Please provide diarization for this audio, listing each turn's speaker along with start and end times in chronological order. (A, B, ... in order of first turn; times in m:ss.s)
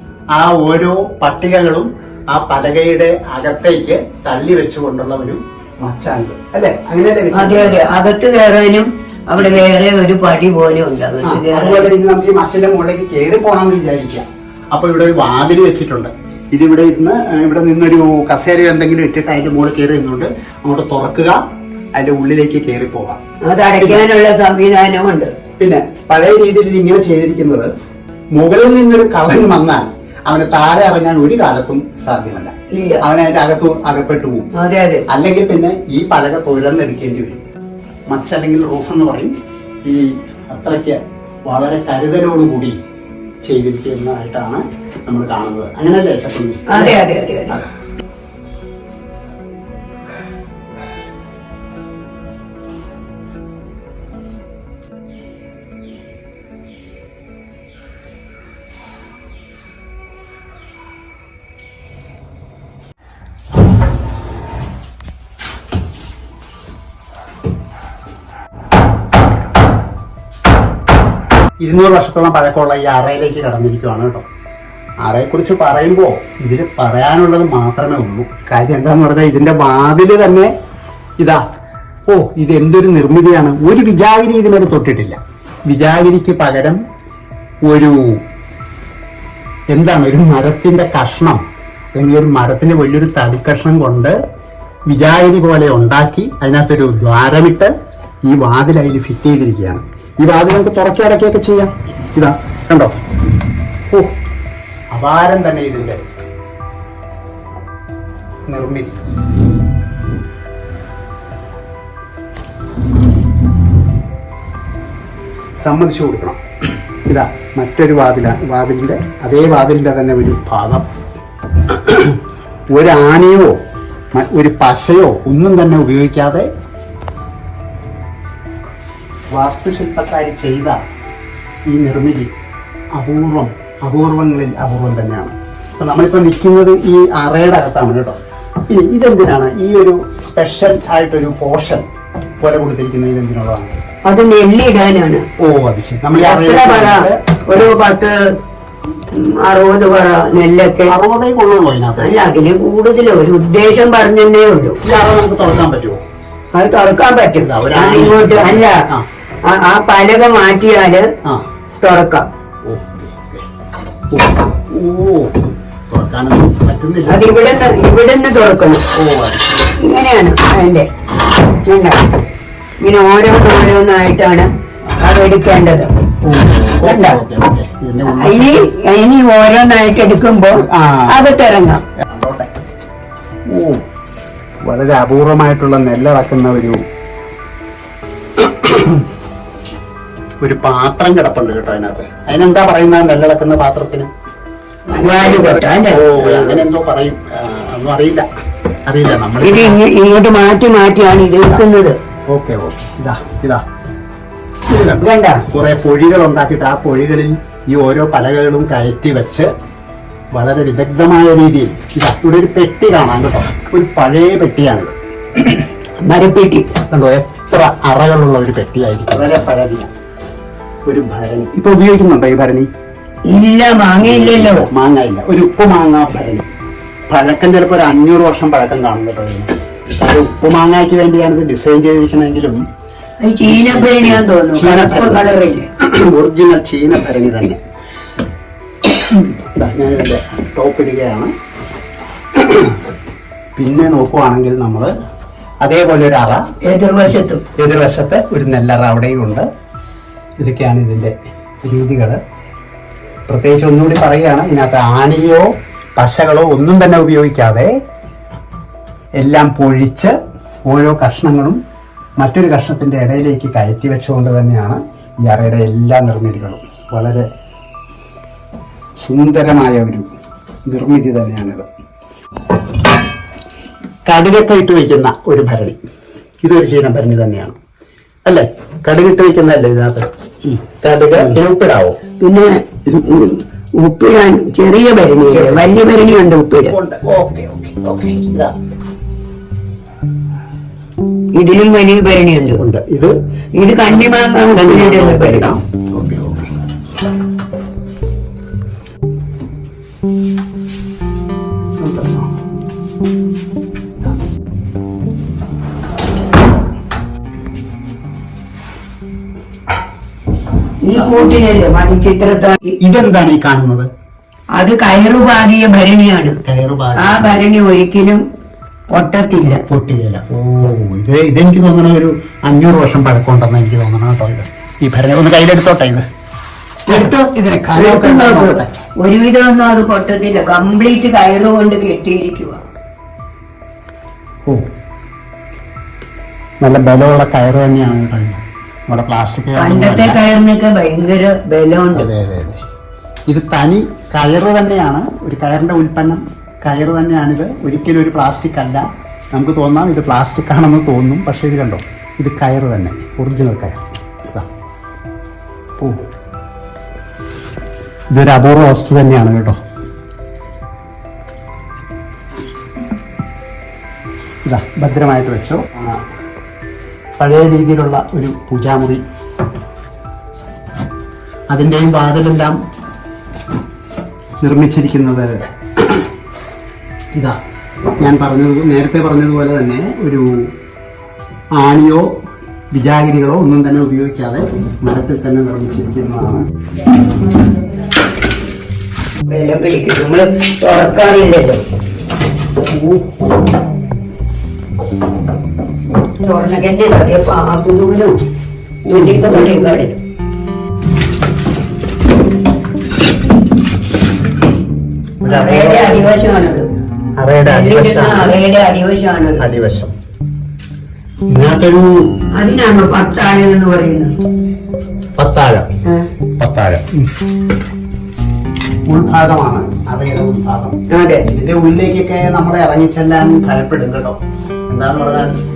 0:00.3-0:07.8 A
0:07.3-0:11.9 B
0:11.2-0:21.4 A
0:22.0-0:23.2 A
0:23.4-0:25.3 B
0:25.6-0:27.7 A
0:28.3-0:34.5 A
0:32.7-0:33.0 B
0:34.6-0:35.1 B
0:35.1-0:37.4 A
0:38.1-0:39.3 A
0:39.8-0:42.8 A
0:43.4-0:47.6 A
0:46.7-0:47.6 B
1:11.6-1:14.2 A
1:15.0-1:20.5 A
1:22.1-1:26.8 A
1:27.6-1:28.2 A
1:29.7-1:31.4 A
1:32.0-1:34.2 A
1:34.9-1:37.7 A
1:38.3-1:42.9 A
1:44.9-1:46.0 A
1:48.5-1:49.0 A
1:55.6-1:56.4 A
1:57.1-2:00.9 A
2:01.7-2:02.2 A
2:02.7-2:03.6 A
2:04.1-2:06.5 A
2:09.3-2:10.8 A
2:11.7-2:12.3 A
2:13.0-2:21.9 A
2:22.4-2:23.8 A
2:24.1-2:25.2 B
2:25.4-2:27.1 A
2:26.2-2:28.2 B
2:29.1-2:31.0 B
2:30.9-2:32.2 A
2:32.0-2:34.8 B
2:34.8-2:36.0 A
2:36.5-2:38.8 B
2:37.4-2:39.1 A
2:39.5-2:41.1 B
2:41.8-2:42.3 B
2:42.6-2:43.4 A
2:44.1-2:45.4 A
2:45.9-2:47.5 A
2:47.1-2:48.8 B
2:48.9-2:49.7 A
2:49.8-2:50.9 B
2:51.6-2:52.0 B
2:52.8-2:55.9 B
2:56.2-2:58.6 A
2:56.8-2:57.2 B
2:58.1-3:01.8 B
3:00.6-3:01.3 A
3:02.0-3:02.5 A
3:03.5-3:03.8 A
3:04.6-3:06.8 A
3:08.4-3:09.0 A
3:10.4-3:14.1 A
3:14.9-3:18.3 A
3:14.9-3:16.6 B
3:18.9-3:19.8 A
3:19.4-3:22.0 B
3:22.3-3:23.6 A
3:24.7-3:29.5 A
3:25.0-3:25.4 B
3:30.3-3:35.6 A
3:36.0-3:36.7 B
3:36.9-3:39.9 A
3:40.8-3:42.7 A
3:43.3-3:44.7 B
3:44.0-3:46.5 A
3:47.1-3:52.6 A
3:53.2-3:55.7 B
3:53.4-3:57.6 A
3:58.8-4:01.3 A
4:02.4-4:02.8 A
4:03.6-4:04.9 A
4:05.6-4:06.4 A
4:06.6-4:07.4 B
4:07.6-4:09.5 A
4:10.4-4:12.2 A
4:13.3-4:17.7 A
4:19.2-4:21.6 A
4:22.2-4:27.3 A
4:29.0-4:30.1 A
4:30.7-4:31.7 A
4:34.1-4:35.8 A
4:36.4-4:37.6 A
4:38.3-4:42.0 A
4:42.2-4:46.8 B
4:45.3-4:45.8 A
4:46.7-4:48.5 A
4:51.4-4:52.6 B
4:52.6-4:53.2 A
4:53.6-4:55.5 B
4:54.5-4:56.5 A
5:01.7-5:02.3 A
5:10.8-5:12.8 B
5:12.8-5:13.9 A
5:14.6-5:16.4 B
5:16.4-5:17.3 A
5:17.0-5:18.2 B
5:18.9-5:19.6 B
5:19.7-5:26.0 A
5:26.9-5:28.7 A
5:26.9-5:32.6 B
5:36.6-5:40.2 A
5:39.6-5:42.1 B
5:42.0-5:42.6 A
5:43.3-5:54.5 A
5:55.8-5:56.0 A
5:58.1-5:59.6 A
6:04.5-6:06.0 A
6:07.2-6:09.0 A
6:11.5-6:12.6 A
6:14.4-6:16.1 A
6:18.0-6:20.5 A
6:21.5-6:22.1 A
6:22.7-6:26.5 A
6:29.3-6:31.6 B
6:32.7-6:33.2 A
6:36.2-6:38.2 B
6:38.8-6:40.0 B
6:39.0-6:39.6 A
6:45.2-6:46.1 A
6:45.2-6:46.7 B
6:47.2-6:48.4 A
6:47.5-6:49.4 B
6:49.4-6:49.9 A
6:51.3-6:52.1 A
6:52.3-6:54.1 B
6:55.2-6:55.7 A
6:56.4-6:57.1 A
6:58.9-7:04.2 A
7:00.9-7:01.3 B
7:04.7-7:05.4 A